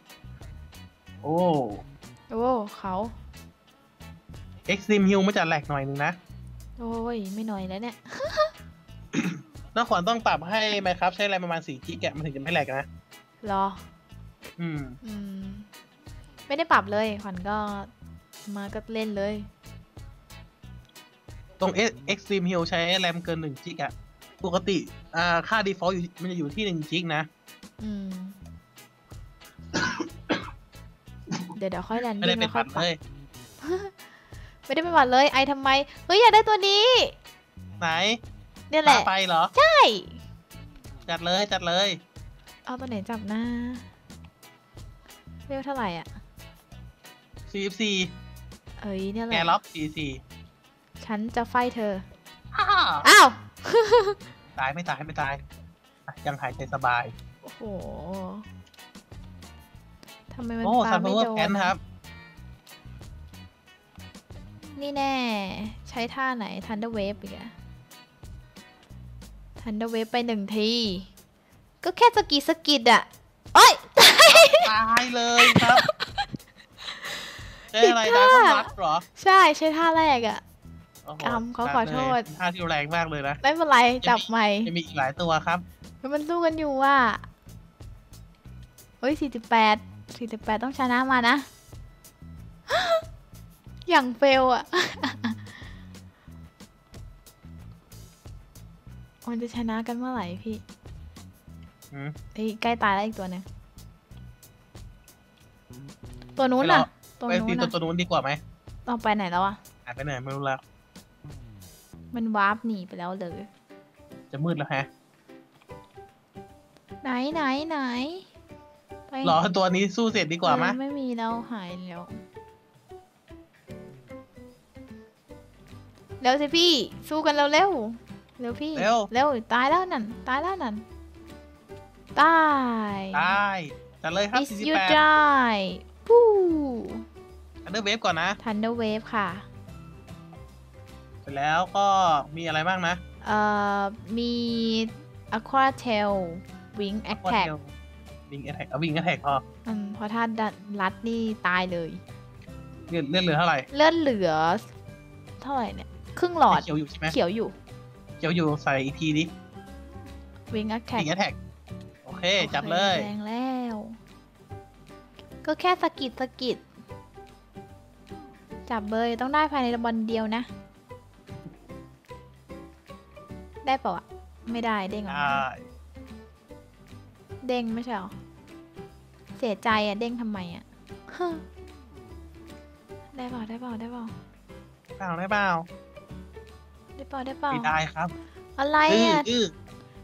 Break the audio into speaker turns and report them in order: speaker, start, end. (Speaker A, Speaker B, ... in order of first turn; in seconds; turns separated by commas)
Speaker A: 1.2-1.8, Speaker B: 2.3-3.1, Speaker A: 4.7-6.2, Speaker B: 6.8-8.5, Speaker A: 9.1-12.8, Speaker B: 13.4-13.8, Speaker A: 14.6-15.0, Speaker B: 15.0-15.7, Speaker B: 16.5-17.9, Speaker B: 18.5-19.5, Speaker A: 21.6-27.3, Speaker B: 27.8-28.4, Speaker A: 29.7-30.4, Speaker B: 31.5-32.9, Speaker A: 32.2-33.0, Speaker B: 33.6-33.9, Speaker B: 34.7-37.1, Speaker A: 37.8-38.2, Speaker B: 38.7-40.2, Speaker A: 38.8-39.5, Speaker A: 41.0-42.0, Speaker B: 42.7-43.9, Speaker B: 45.5-46.1, Speaker A: 47.5-48.1, Speaker B: 48.8-49.6, Speaker A: 49.3-50.2, Speaker B: 51.0-52.0, Speaker A: 52.5-53.1, Speaker B: 53.0-54.2, Speaker A: 54.6-55.4, Speaker A: 56.1-57.1, Speaker B: 57.4-58.5, Speaker B: 60.3-61.7, Speaker A: 60.6-61.8, Speaker B: 64.8-67.5, Speaker B: 69.6-71.1, Speaker B: 71.8-74.7, Speaker A: 74.3-75.8, Speaker B: 75.4-76.2, Speaker B: 76.9-77.2, Speaker A: 77.7-79.0, Speaker B: 77.8-80.4, Speaker A: 81.0-83.4, Speaker B: 81.2-82.2, Speaker B: 83.4-84.7, Speaker A: 84.0-85.6, Speaker B: 86.0-87.2, Speaker B: 89.0-91.5, Speaker B: 92.7-93.0, Speaker B: 93.9-95.4, Speaker B: 99.2-100.6, Speaker B: 102.3-103.4, Speaker B: 106.4-107.7, Speaker A: 106.6-108.4, Speaker B: 108.8-109.6, Speaker A: 109.8-110.6, Speaker B: 112.1-113.5, Speaker A: 114.3-114.9, Speaker B: 117.0-118.3, Speaker B: 119.1-119.4, Speaker A: 119.2-120.8, Speaker B: 120.4-122.2, Speaker B: 126.2-130.8, Speaker A: 128.7-129.1, Speaker B: 132.1-133.3, Speaker A: 133.1-135.0, Speaker B: 134.3-137.0, Speaker A: 137.7-138.4, Speaker B: 138.4-139.4, Speaker A: 141.2-143.0, Speaker B: 143.2-147.5, Speaker A: 147.1-147.7, Speaker A: 148.3-149.4, Speaker B: 149.7-152.0, Speaker A: 152.9-153.7, Speaker B: 153.7-154.7, Speaker B: 155.4-157.6, Speaker A: 156.5-157.1, Speaker A: 158.2-159.3, Speaker B: 160.5-161.1, Speaker A: 160.9-161.4, Speaker A: 162.0-163.1, Speaker B: 162.4-164.0, Speaker B: 165.4-166.6, Speaker B: 168.7-170.5, Speaker B: 173.6-175.4, Speaker A: 175.1-175.6, Speaker B: 177.4-178.1, Speaker B: 179.4-181.4, Speaker B: 183.1-184.1, Speaker A: 184.9-185.7, Speaker B: 187.0-187.7, Speaker A: 187.5-188.1, Speaker B: 188.6-189.3, Speaker A: 188.9-189.5